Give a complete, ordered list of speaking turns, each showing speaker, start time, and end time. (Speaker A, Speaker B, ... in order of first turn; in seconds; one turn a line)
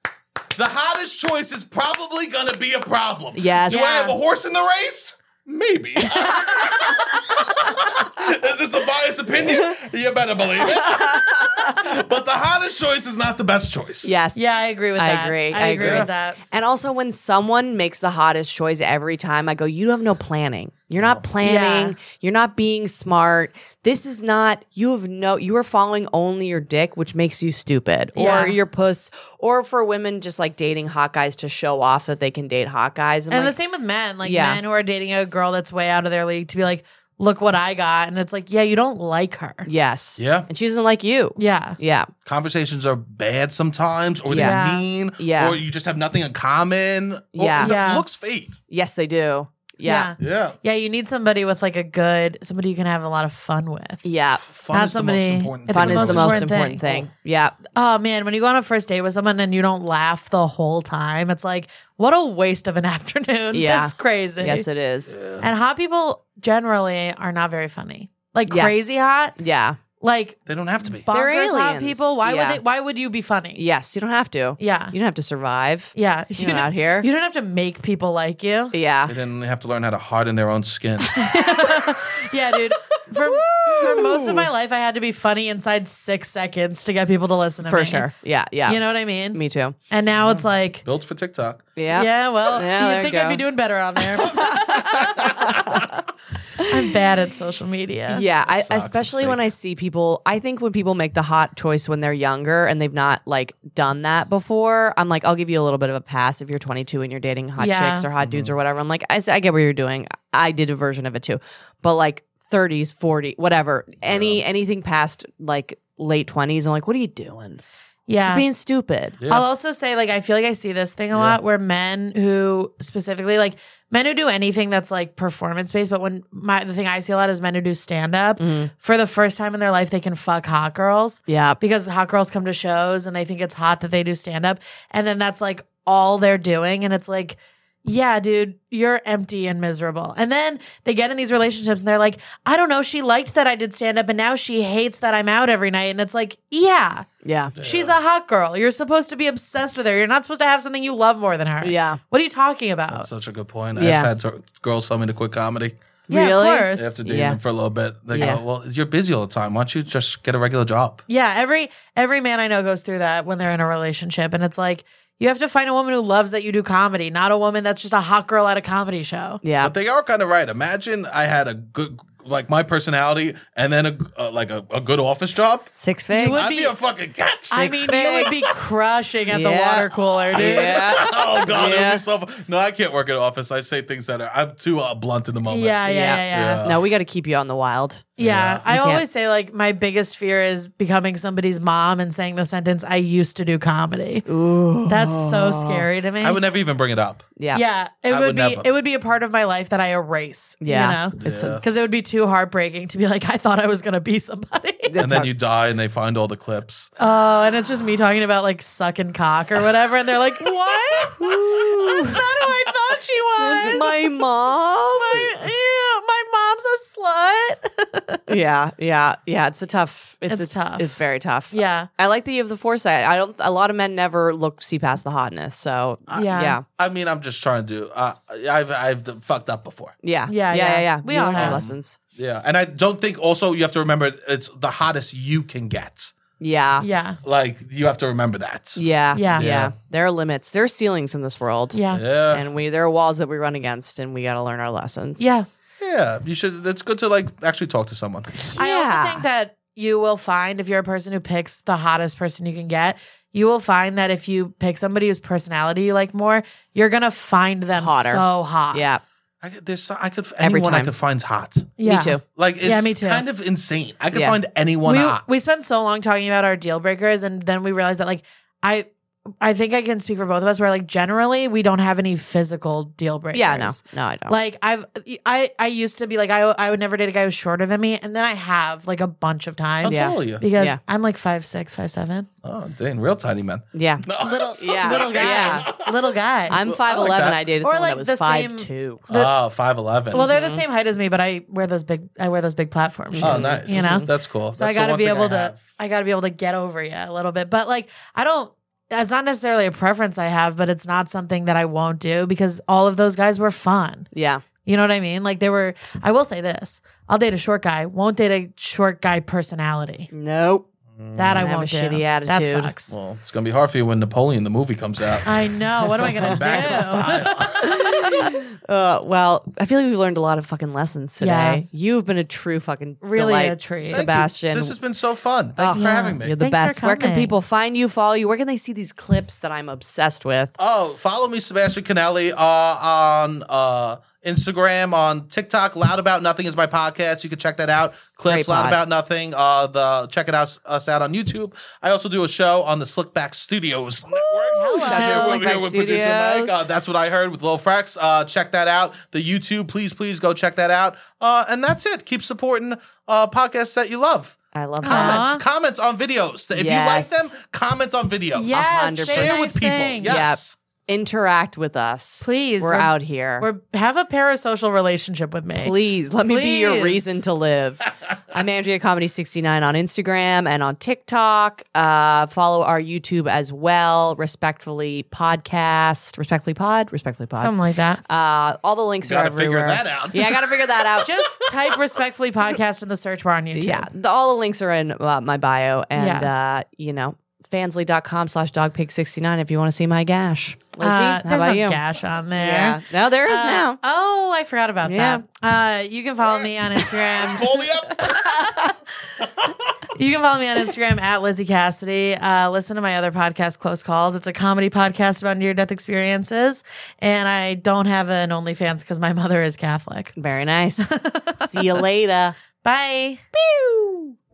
Speaker A: 0.6-14.1
Speaker B: 3.4-4.0
Speaker C: 3.7-4.2
Speaker C: 6.1-6.9
Speaker B: 10.6-11.8
Speaker B: 14.0-14.5
Speaker C: 14.3-16.4
Speaker B: 15.0-33.5
Speaker A: 15.8-16.1
Speaker C: 21.4-22.0
Speaker C: 28.2-28.6
Speaker C: 33.3-39.7
Speaker B: 34.2-34.6
Speaker B: 39.7-42.1
Speaker A: 40.2-40.5
Speaker C: 41.4-41.8
Speaker A: 42.2-48.5
Speaker B: 44.3-44.6
Speaker C: 44.4-44.8
Speaker B: 45.2-45.6
Speaker B: 47.3-47.8
Speaker C: 47.6-48.1
Speaker B: 48.7-50.1
Speaker C: 49.9-54.0
Speaker A: 50.2-50.5
Speaker B: 54.0-54.5
Speaker A: 54.5-56.5
Speaker C: 54.7-57.1
Speaker B: 55.7-57.6
Speaker C: 57.8-64.7
Speaker B: 63.5-65.1
Speaker A: 65.1-65.5
Speaker C: 65.4-69.4
Speaker B: 68.5-69.8
Speaker C: 70.0-73.6
Speaker A: 70.5-71.1
Speaker B: 71.1-72.6
Speaker B: 73.6-77.1
Speaker C: 74.6-75.0
Speaker C: 76.0-78.8
Speaker B: 78.7-79.1
Speaker A: 79.1-81.2
Speaker C: 81.1-88.1
Speaker B: 83.1-84.5
Speaker B: 87.7-88.8
Speaker C: 88.7-90.8
Speaker B: 89.3-89.8
Speaker A: 90.2-91.7
Speaker B: 91.8-93.4
Speaker C: 91.9-95.8
Speaker B: 94.2-95.9
Speaker A: 95.0-95.8
Speaker B: 96.6-96.9
Speaker C: 96.6-98.2
Speaker B: 98.1-117.6
Speaker A: 98.5-99.5
Speaker C: 107.6-108.1
Speaker A: 108.2-108.5
Speaker A: 114.0-114.4
Speaker C: 118.1-118.5
Speaker B: 118.2-119.2
Speaker A: 119.2-119.5
Speaker C: 119.3-153.1
Speaker A: 121.1-121.4
Speaker B: 128.4-128.7
Speaker B: 131.3-131.6
Speaker B: 147.2-147.5
Speaker A: 147.6-148.0
Speaker B: 151.6-152.0
Speaker A: 152.9-155.8
Speaker B: 153.8-154.1
Speaker B: 156.1-157.4
Speaker C: 156.1-157.0
Speaker A: 156.7-161.0
Speaker B: 158.1-158.4
Speaker C: 161.1-169.4
Speaker B: 169.4-169.7
Speaker A: 169.6-175.7
Speaker B: 175.8-176.4
Speaker C: 176.1-176.8
Speaker A: 176.3-178.5
Speaker C: 177.5-181.3
Speaker B: 177.6-178.3
Speaker B: 179.3-182.0
Speaker A: 180.3-186.8
Speaker C: 185.5-186.6
Speaker B: 185.9-188.1
Speaker C: 188.2-194.2
Speaker A: 188.2-188.6
Speaker B: 188.7-189.0
Speaker B: 194.3-195.9
Speaker C: 194.9-196.4
Speaker A: 196.2-197.3
Speaker B: 197.4-197.6
Speaker C: 197.5-205.0
Speaker A: 198.1-198.7
Speaker B: 200.6-201.6
Speaker A: 201.2-201.6
Speaker B: 204.9-205.3
Speaker A: 205.0-206.9
Speaker C: 207.0-214.2
Speaker B: 211.2-212.2
Speaker B: 213.4-215.3
Speaker C: 214.9-218.2
Speaker B: 218.3-226.6
Speaker C: 220.3-220.9
Speaker C: 221.5-221.9
Speaker A: 226.1-229.9
Speaker C: 226.1-226.6
Speaker B: 230.0-232.0
Speaker C: 230.3-231.6
Speaker A: 231.3-236.1
Speaker B: 236.4-236.9
Speaker C: 236.8-237.2
Speaker A: 237.2-239.7
Speaker B: 238.8-245.3
Speaker C: 239.1-239.5
Speaker C: 241.7-242.0
Speaker A: 241.9-242.5
Speaker C: 245.2-245.5
Speaker A: 245.8-248.4
Speaker B: 248.5-249.2
Speaker C: 248.6-258.9
Speaker B: 257.8-259.0
Speaker A: 259.4-261.7
Speaker B: 260.4-260.9
Speaker C: 261.8-263.2
Speaker B: 261.8-262.2
Speaker A: 262.3-265.2
Speaker B: 264.1-264.4
Speaker C: 264.8-268.9
Speaker C: 269.4-282.3
Speaker B: 273.3-274.4
Speaker A: 279.8-280.4
Speaker B: 279.8-280.8
Speaker A: 282.4-287.4
Speaker B: 283.7-285.7
Speaker C: 284.2-286.8
Speaker B: 286.5-289.0
Speaker C: 287.6-289.3
Speaker A: 289.1-290.3
Speaker C: 290.1-304.1
Speaker B: 290.2-290.6
Speaker B: 293.1-294.1
Speaker A: 293.2-295.6
Speaker B: 304.1-304.4
Speaker C: 304.6-310.1
Speaker B: 310.1-310.7
Speaker A: 310.9-311.5
Speaker C: 311.2-312.9
Speaker B: 311.3-312.7
Speaker A: 312.9-318.3
Speaker C: 315.2-318.3
Speaker B: 316.2-316.7
Speaker B: 317.6-324.8
Speaker C: 321.2-321.6
Speaker C: 323.0-324.1
Speaker A: 323.9-326.3
Speaker B: 325.6-330.6
Speaker C: 325.7-327.3
Speaker A: 330.6-360.6
Speaker B: 338.3-338.8
Speaker C: 344.4-345.4
Speaker B: 344.5-346.5
Speaker B: 354.5-355.3
Speaker C: 354.8-355.4
Speaker B: 356.5-357.3
Speaker C: 358.3-360.2
Speaker B: 358.5-359.5
Speaker B: 360.0-363.5
Speaker C: 362.2-367.2
Speaker B: 365.6-377.5
Speaker C: 377.4-378.0
Speaker B: 378.1-381.1
Speaker A: 379.1-381.3
Speaker C: 381.0-383.9
Speaker B: 383.5-391.8
Speaker C: 386.0-386.3
Speaker C: 390.8-398.8
Speaker B: 392.3-393.8
Speaker B: 394.8-395.2
Speaker A: 396.4-399.8
Speaker C: 399.9-410.2
Speaker B: 410.2-412.4
Speaker C: 410.8-411.8
Speaker C: 412.6-413.2
Speaker B: 413.3-414.1